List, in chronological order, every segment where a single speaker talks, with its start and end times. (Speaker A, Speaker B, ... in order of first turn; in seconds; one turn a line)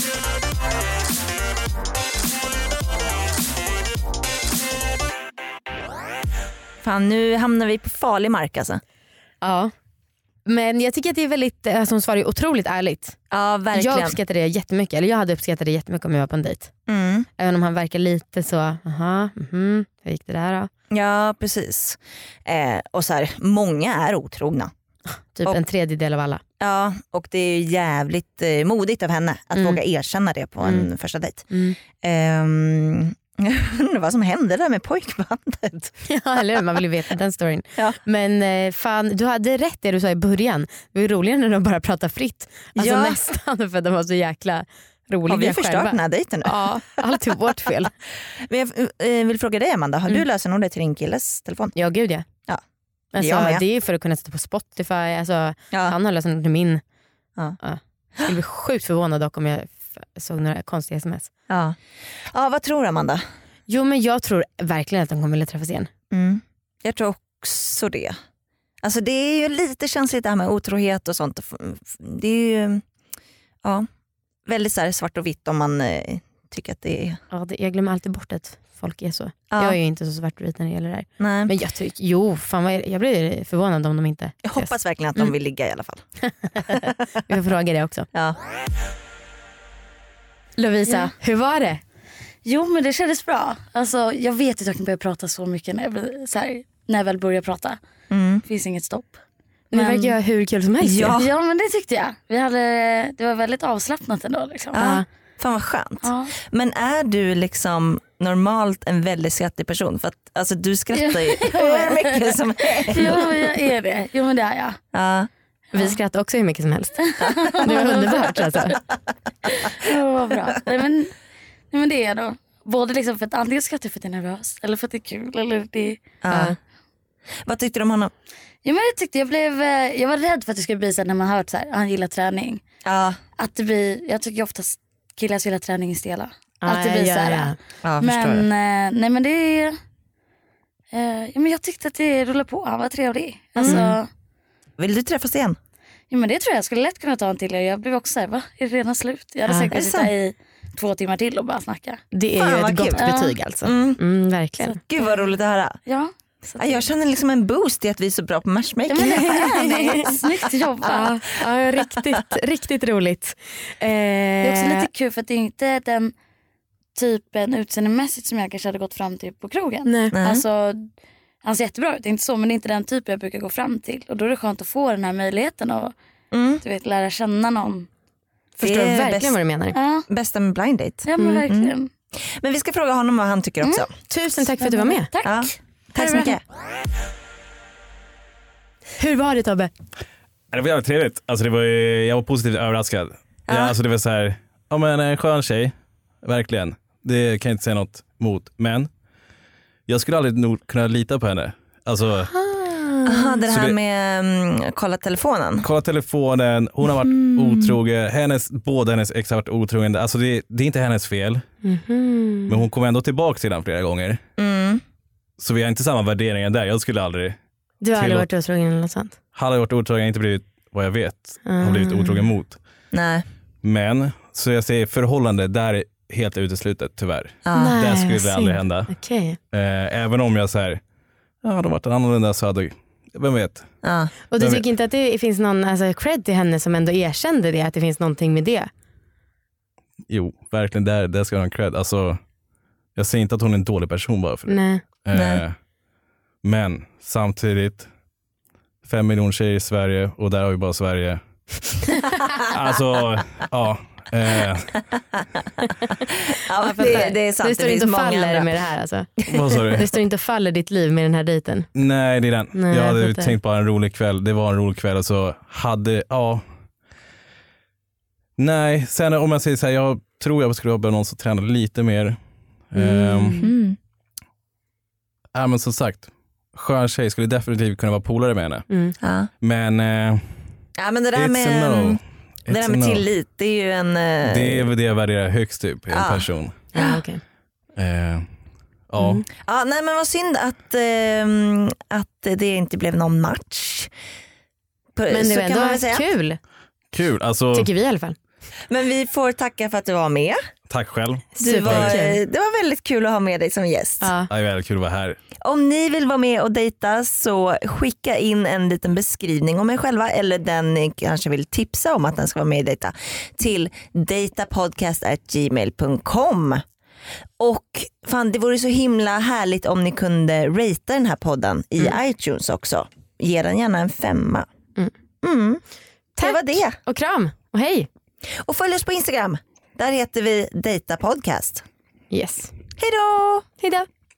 Speaker A: 6.8-8.8
Speaker B: 9.4-9.7
Speaker B: 10.4-13.2
Speaker A: 13.3-14.2
Speaker B: 13.7-16.7
Speaker A: 16.9-17.3
Speaker B: 17.4-20.7
Speaker A: 20.9-24.7
Speaker B: 25.3-26.4
Speaker A: 26.6-35.9
Speaker B: 29.5-29.8
Speaker B: 30.6-30.9
Speaker B: 31.5-31.8
Speaker B: 36.0-47.9
Speaker A: 42.8-43.2
Speaker A: 45.3-46.7
Speaker A: 48.4-51.7
Speaker B: 51.7-52.3
Speaker B: 53.1-56.8
Speaker A: 53.2-53.6
Speaker B: 57.6-61.3
Speaker A: 61.5-61.8
Speaker A: 62.3-63.2
Speaker B: 63.7-65.9
Speaker A: 66.1-68.2
Speaker A: 68.8-72.8
Speaker A: 74.5-77.2
Speaker B: 77.3-85.3
Speaker A: 79.5-79.8
Speaker A: 81.2-81.5
Speaker A: 84.4-86.0
Speaker B: 86.2-88.1
Speaker B: 90.6-91.8
Speaker C: 92.4-97.8
Speaker A: 98.1-98.4
Speaker C: 98.4-99.2
Speaker C: 99.7-100.1
Speaker B: 99.7-101.2
Speaker A: 100.8-101.3
Speaker C: 101.2-104.8
Speaker A: 104.7-113.6
Speaker B: 104.8-105.0
Speaker C: 106.0-106.3
Speaker C: 110.9-114.8
Speaker A: 114.9-115.3
Speaker B: 115.7-118.7
Speaker C: 117.0-118.8
Speaker C: 119.5-121.1
Speaker C: 121.7-126.0
Speaker A: 126.2-126.6
Speaker A: 127.4-128.1
Speaker C: 128.6-132.6
Speaker A: 132.8-133.2
Speaker C: 133.4-139.8
Speaker B: 136.6-137.6
Speaker A: 137.8-138.5
Speaker C: 140.9-144.1
Speaker A: 143.6-143.9
Speaker B: 143.6-143.9
Speaker A: 144.8-145.6
Speaker C: 146.1-152.0
Speaker A: 149.7-150.1
Speaker B: 152.1-154.8
Speaker A: 152.3-154.0
Speaker C: 152.9-153.3
Speaker A: 154.6-155.8
Speaker C: 155.0-156.9
Speaker A: 156.6-160.4
Speaker C: 158.9-161.3
Speaker B: 161.3-164.9
Speaker C: 164.4-166.1
Speaker C: 166.9-170.9
Speaker B: 169.8-170.1
Speaker A: 170.1-170.4
Speaker C: 171.4-175.9
Speaker A: 176.3-176.6
Speaker C: 176.6-177.9
Speaker B: 178.6-179.8
Speaker A: 178.6-179.4
Speaker C: 179.7-180.0
Speaker A: 180.1-183.9
Speaker C: 181.0-181.9
Speaker C: 183.6-183.9
Speaker B: 184.1-185.1
Speaker C: 184.6-186.3
Speaker A: 185.2-186.4
Speaker B: 189.0-189.7
Speaker D: 190.5-198.9
Speaker A: 193.5-193.7
Speaker D: 199.9-202.3
Speaker B: 202.3-203.3
Speaker A: 203.1-205.7
Speaker D: 203.5-203.8
Speaker D: 205.6-211.4
Speaker A: 206.9-207.7
Speaker B: 211.6-212.6
Speaker D: 212.5-214.2
Speaker A: 214.4-214.8
Speaker D: 215.4-217.4
Speaker B: 217.8-219.2
Speaker D: 217.9-218.3
Speaker D: 219.3-222.6
Speaker B: 221.4-222.3
Speaker A: 222.9-223.2
Speaker D: 223.6-228.9
Speaker A: 227.4-227.7
Speaker B: 227.5-229.4
Speaker D: 229.5-230.8
Speaker D: 231.4-233.7
Speaker A: 233.8-234.1
Speaker B: 234.3-238.7
Speaker D: 234.3-234.6
Speaker D: 240.1-242.2
Speaker D: 242.9-245.6
Speaker B: 244.5-244.8
Speaker A: 245.1-245.4
Speaker D: 246.4-247.9
Speaker D: 248.8-251.2
Speaker D: 252.5-254.7
Speaker A: 255.4-258.5
Speaker B: 256.6-261.7
Speaker D: 259.3-259.8
Speaker D: 261.7-266.4
Speaker B: 262.5-263.4
Speaker D: 268.4-272.2
Speaker D: 272.7-273.4
Speaker B: 272.7-273.5
Speaker A: 273.4-273.8
Speaker D: 275.3-278.7
Speaker B: 278.7-278.9
Speaker A: 279.0-279.3
Speaker D: 279.4-280.2
Speaker A: 280.8-284.6
Speaker D: 281.1-283.0
Speaker D: 284.2-286.6
Speaker A: 285.9-287.0
Speaker B: 286.7-287.2
Speaker D: 287.8-288.2
Speaker D: 288.9-289.2
Speaker B: 289.0-289.2
Speaker A: 289.3-293.9
Speaker A: 294.9-296.1
Speaker B: 295.1-296.4
Speaker D: 296.9-297.7
Speaker B: 297.5-298.1
Speaker A: 298.7-300.4
Speaker D: 300.7-302.0
Speaker B: 301.4-302.2
Speaker A: 301.4-304.1
Speaker B: 304.0-304.3
Speaker D: 304.3-305.2
Speaker A: 305.4-316.6
Speaker A: 317.4-324.4
Speaker A: 325.2-325.6
Speaker B: 326.2-327.9
Speaker A: 326.2-326.8
Speaker A: 328.4-331.6
Speaker B: 332.1-332.5
Speaker A: 332.8-333.5
Speaker B: 333.6-333.9